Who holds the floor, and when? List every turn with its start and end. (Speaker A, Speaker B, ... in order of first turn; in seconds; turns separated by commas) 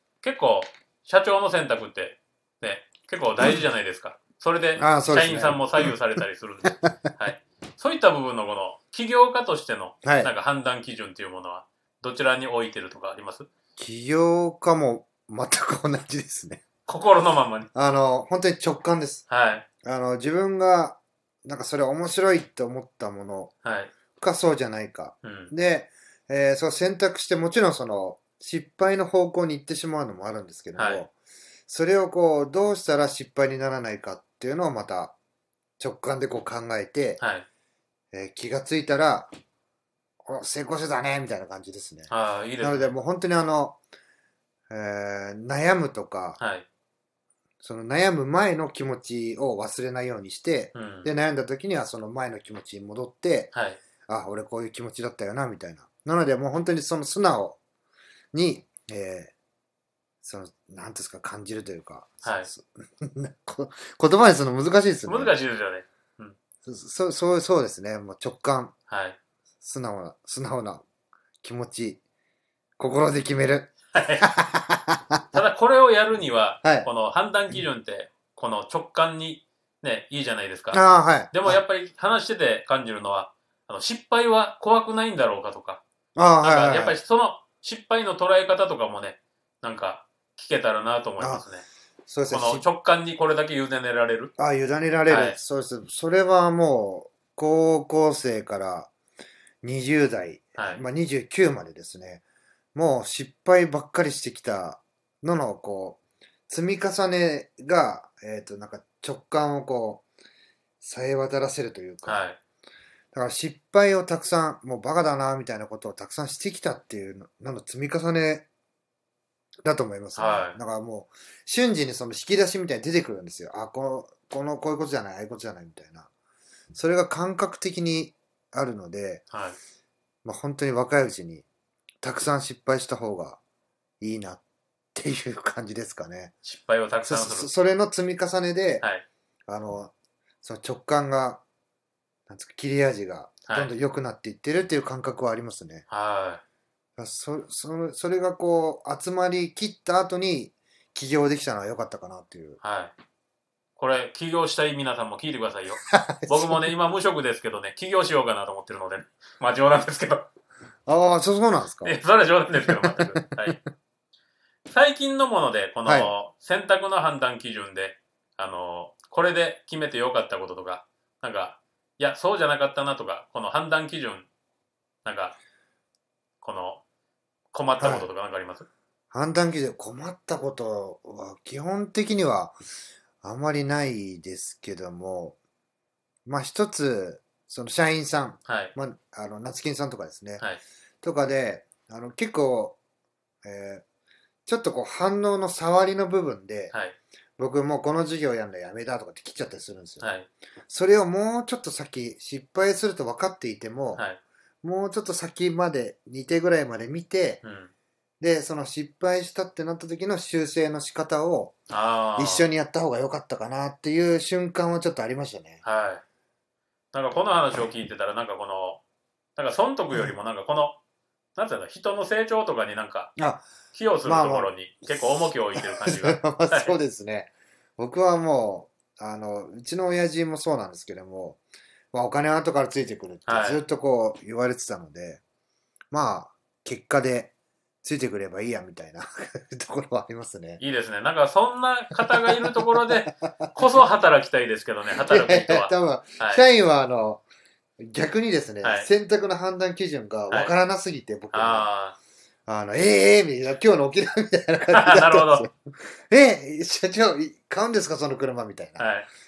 Speaker A: 0.2-13.5, Speaker B: 4.8-5.8, Speaker B: 10.0-10.3, Speaker B: 13.8-16.6, Speaker A: 16.9-17.7, Speaker B: 17.7-19.2, Speaker A: 19.3-19.7, Speaker B: 19.8-23.5, Speaker A: 23.6-23.9, Speaker B: 24.2-31.1, Speaker A: 25.2-25.5, Speaker A: 30.8-31.0, Speaker B: 31.7-35.1, Speaker B: 35.8-37.2, Speaker A: 37.2-37.5, Speaker B: 38.1-39.3, Speaker B: 40.3-43.8, Speaker A: 42.1-42.9, Speaker B: 44.7-46.4, Speaker A: 46.4-46.7, Speaker B: 47.6-53.5, Speaker A: 50.7-51.1, Speaker A: 53.5-53.8, Speaker B: 54.1-57.6, Speaker B: 58.3-59.3, Speaker B: 60.2-65.4, Speaker A: 62.2-62.5, Speaker A: 65.1-66.4, Speaker B: 66.6-68.7, Speaker A: 68.9-69.2, Speaker B: 69.6-70.8, Speaker B: 71.4-72.0, Speaker B: 72.8-75.2, Speaker A: 73.9-74.3, Speaker A: 75.3-85.8, Speaker B: 80.7-81.6, Speaker B: 86.2-87.0, Speaker A: 86.4-91.7, Speaker B: 91.2-91.5, Speaker B: 92.1-92.7, Speaker A: 92.3-94.3, Speaker B: 94.4-98.9, Speaker A: 95.1-95.4, Speaker B: 99.6-102.2, Speaker A: 100.6-100.8, Speaker B: 102.8-110.0, Speaker B: 110.8-112.3, Speaker A: 112.0-112.4, Speaker B: 113.1-118.5, Speaker B: 119.6-126.1, Speaker A: 120.2-120.6, Speaker B: 126.7-129.2, Speaker A: 129.3-129.6, Speaker B: 130.2-131.5, Speaker B: 132.0-133.4, Speaker B: 134.0-134.4, Speaker B: 134.9-136.3, Speaker A: 136.4-137.5, Speaker B: 137.1-138.8, Speaker B: 139.5-139.9, Speaker B: 140.4-141.4, Speaker B: 142.3-145.8, Speaker A: 143.5-143.7, Speaker A: 145.9-146.4, Speaker B: 147.0-152.6, Speaker A: 152.6-152.9, Speaker A: 153.8-160.3, Speaker B: 155.9-156.7, Speaker B: 160.9-162.0, Speaker A: 161.8-163.6, Speaker B: 162.7-163.6, Speaker A: 164.7-174.3, Speaker B: 165.9-166.1, Speaker A: 175.1-175.4, Speaker A: 176.4-176.8, Speaker A: 177.5-178.7, Speaker B: 177.8-178.1, Speaker B: 179.1-182.6, Speaker B: 183.2-185.4, Speaker B: 186.3-190.4, Speaker A: 188.5-188.7, Speaker B: 191.0-192.8, Speaker B: 193.4-193.8, Speaker B: 194.5-196.7, Speaker A: 196.7-197.0, Speaker B: 197.4-200.1, Speaker A: 200.0-200.3, Speaker B: 200.7-204.0, Speaker B: 204.6-207.4, Speaker A: 207.4-207.7, Speaker B: 208.2-211.6, Speaker A: 211.7-212.5, Speaker B: 212.2-215.6, Speaker A: 215.6-216.0, Speaker A: 216.9-218.8, Speaker A: 219.4-220.8, Speaker A: 221.4-223.1, Speaker B: 223.2-223.5, Speaker A: 223.7-226.8, Speaker B: 224.0-231.4, Speaker B: 231.9-235.2, Speaker A: 233.3-233.6, Speaker B: 235.9-240.6, Speaker A: 240.6-246.4, Speaker B: 242.1-243.3, Speaker B: 245.1-247.2, Speaker B: 247.8-251.7, Speaker A: 248.6-248.9, Speaker A: 251.3-252.0, Speaker B: 252.5-258.9, Speaker A: 254.7-255.5, Speaker A: 258.8-259.1